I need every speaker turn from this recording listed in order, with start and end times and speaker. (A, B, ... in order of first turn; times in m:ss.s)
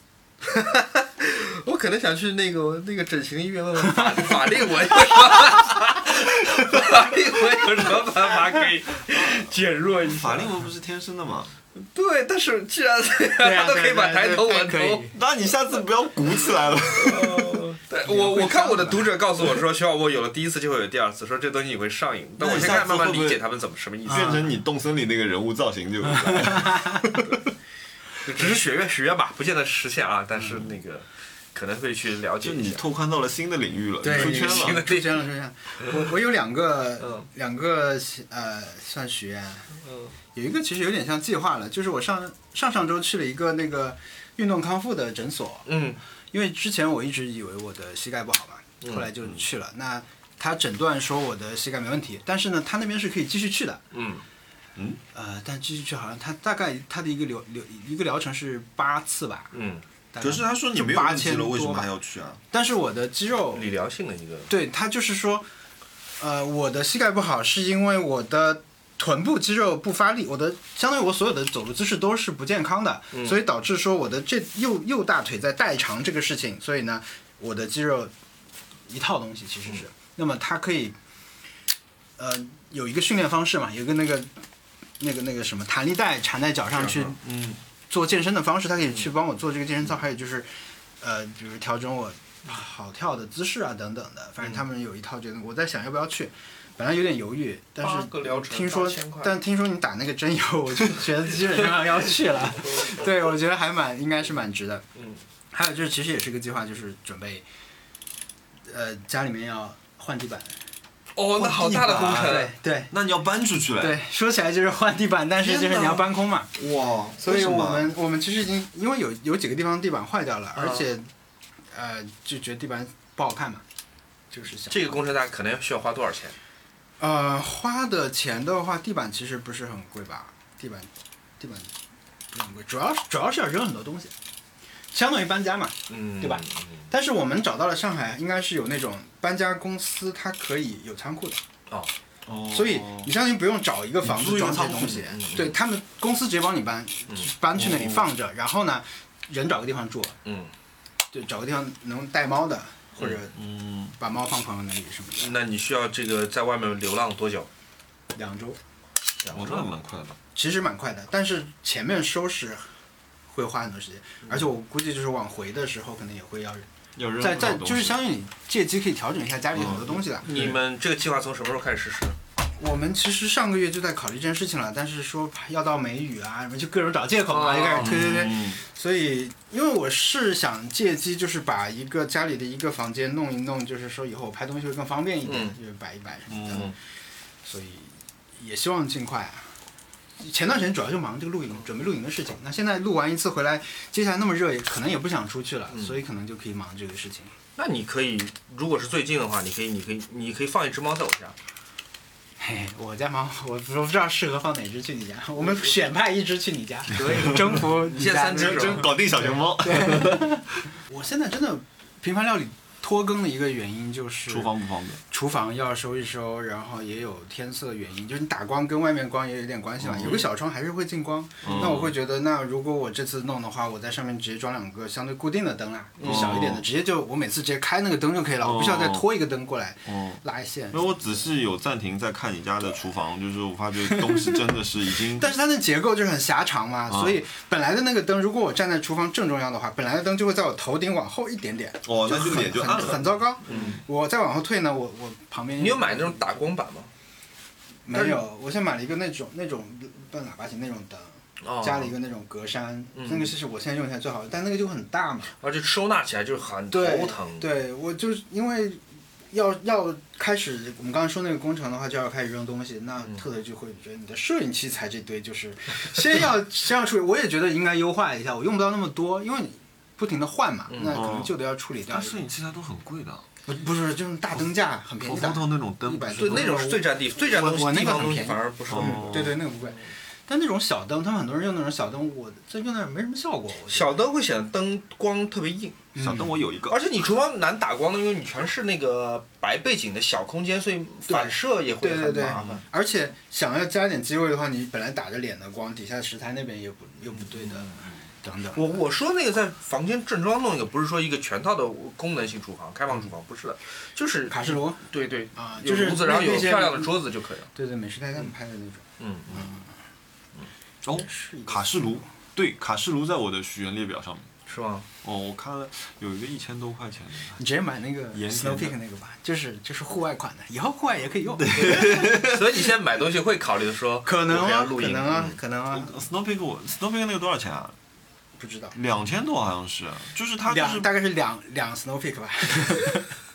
0:00.4-0:10.5 A
0:10.0-0:11.5 B
0:11.7-0:15.0 A
0:13.4-0:15.2 C
0:15.1-0:17.5 B
0:16.9-0:24.4 A
0:18.0-0:19.1 C
0:22.4-0:23.4 B
0:24.0-0:27.5 B
0:24.1-0:24.5 C
0:26.1-0:27.1 C
0:28.2-0:32.8 A
0:28.4-0:28.6 C
0:32.4-0:34.8 B
0:34.0-0:39.7 C
0:34.1-0:35.2 A
0:37.0-0:37.3 A
0:39.8-0:40.1 A
0:40.3-0:45.7 C
0:45.6-0:46.0 A
0:46.3-0:53.8 C
0:48.8-0:49.1 A
0:53.9-0:54.2 A
0:54.8-0:55.0 B
0:55.1-0:59.5 C
0:59.5-0:59.8 A
1:00.1-1:01.9 C
1:00.2-1:02.4 B
1:02.5-1:03.7 C
1:03.5-1:04.5 A
1:04.5-1:05.4 C
1:06.2-1:18.1 C
1:13.1-1:13.4 A
1:18.9-1:21.0 C
1:22.2-1:24.3 C
1:25.0-1:27.2 C
1:26.8-1:27.6 A
1:27.9-1:44.8 C
1:37.8-1:39.4 A
1:42.6-1:43.0 A
1:44.9-1:45.2 A
1:45.5-1:47.4 C
1:48.7-1:50.6 C
1:51.2-1:52.5 A
1:51.3-1:52.9 C
1:51.8-1:54.0 B
1:53.8-1:56.5 C
1:55.4-1:56.0 A
1:56.6-1:57.9 B
1:57.2-2:01.1 C
2:00.5-2:00.9 A
2:01.7-2:03.6 C
2:04.3-2:04.9 C
2:04.7-2:06.4 A
2:07.0-2:11.7 C
2:12.3-2:14.1 C
2:14.9-2:21.4 C
2:15.9-2:16.8 A
2:22.2-2:23.1 B
2:22.5-2:30.2 C
2:24.0-2:25.6 A
2:27.5-2:28.1 B
2:30.2-2:30.5 A
2:31.1-2:33.4 C
2:33.3-2:34.0 B
2:34.0-2:35.4 C
2:35.2-2:37.5 A
2:38.1-2:38.6 C
2:39.2-2:39.7 A
2:39.3-2:40.2 B
2:40.3-2:42.7 C
2:43.3-2:46.7 C
2:47.0-2:48.0 B
2:47.2-2:50.5 C
2:49.5-2:50.0 B
2:50.2-2:52.2 A
2:52.6-3:06.7 C
2:57.3-2:58.0 A
2:57.8-2:58.6 B
3:05.2-3:05.5 A
3:06.3-3:06.6 B
3:07.4-3:09.5 C
3:10.2-3:17.3 C
3:15.7-3:16.0 A
3:17.6-3:21.4 A
3:22.4-3:34.5 C
3:25.4-3:25.7 A
3:26.9-3:28.9 A
3:27.0-3:30.4 B
3:34.3-3:35.0 B
3:35.1-3:51.3 C
3:39.8-3:40.2 B
3:41.4-3:41.9 B
3:41.5-3:41.8 A
3:46.0-3:46.4 A
3:46.0-3:46.6 B
3:48.4-3:49.1 B
3:49.8-3:50.2 B
3:50.7-3:55.3 B
3:53.8-3:54.4 C
3:55.1-4:06.4 C
3:56.9-3:57.2 B
4:01.8-4:03.6 B
4:03.4-4:03.8 A
4:05.6-4:06.9 A
4:07.8-4:15.3 C
4:07.9-4:08.2 A
4:11.4-4:11.9 A
4:12.9-4:13.3 A
4:15.4-4:17.5 A
4:16.7-4:32.2 C
4:30.7-4:31.0 A
4:30.9-4:31.4 B
4:31.9-4:33.2 B
4:33.4-4:43.9 C
4:35.0-4:36.6 B
4:36.2-4:39.2 A
4:38.7-4:39.4 B
4:43.7-4:45.8 A
4:45.9-4:46.4 C
4:46.0-4:46.8 B
4:46.7-4:52.6 A
4:51.1-4:58.8 C
4:57.1-4:57.9 A
4:58.5-5:07.5 A
5:04.3-5:06.9 C
5:07.5-5:09.7 C
5:09.0-5:09.5 A
5:10.8-5:14.3 B
5:10.9-5:12.0 C
5:14.5-5:14.9 A
5:15.0-5:17.4 B
5:17.4-5:22.2 C
5:18.1-5:18.8 B
5:21.4-5:22.6 B
5:21.5-5:25.4 A
5:24.0-5:25.9 C
5:25.7-5:27.8 B
5:28.4-5:28.8 C
5:28.7-5:30.9 B
5:30.5-5:33.2 C